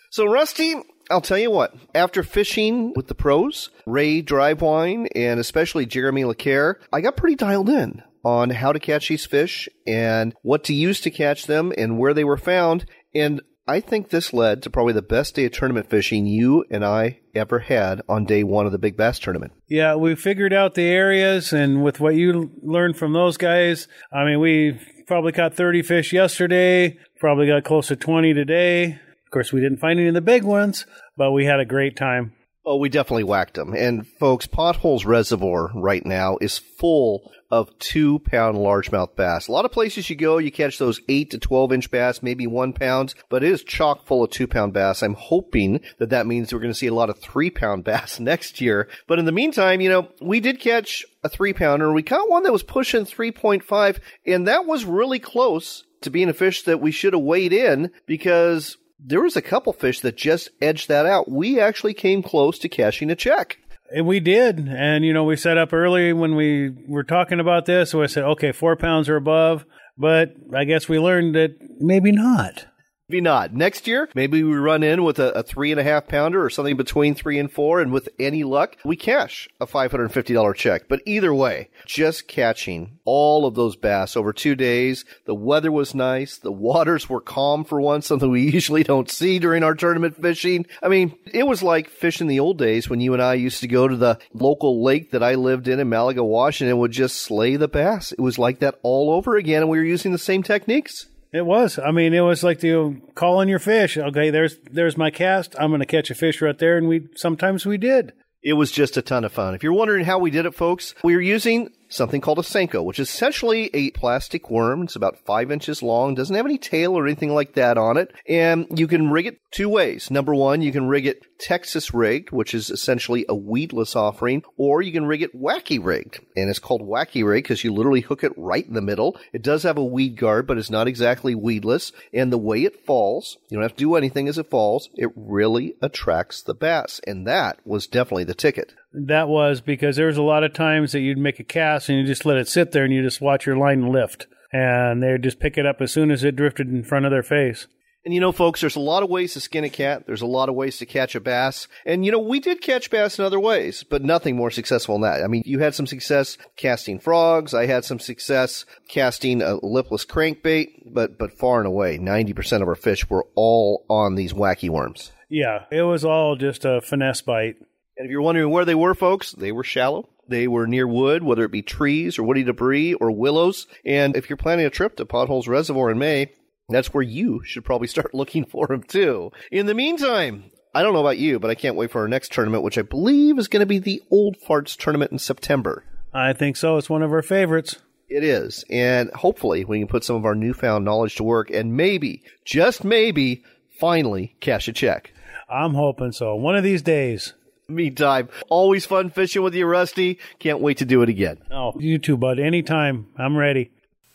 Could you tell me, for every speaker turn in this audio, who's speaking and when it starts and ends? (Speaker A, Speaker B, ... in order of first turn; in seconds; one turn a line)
Speaker A: 0.1-19.5
Speaker B: 19.7-32.3
Speaker A: 32.6-63.6
Speaker B: 63.9-72.7
Speaker A: 73.1-101.1
Speaker B: 101.3-108.1
Speaker A: 108.4-138.7
Speaker B: 138.9-147.7
Speaker A: 148.1-165.1
Speaker B: 165.3-167.6
Speaker A: 168.0-185.8
Speaker B: 186.1-187.8
Speaker A: 188.1-195.1
Speaker B: 195.5-197.3
Speaker A: 197.7-201.4
Speaker B: 201.5-203.7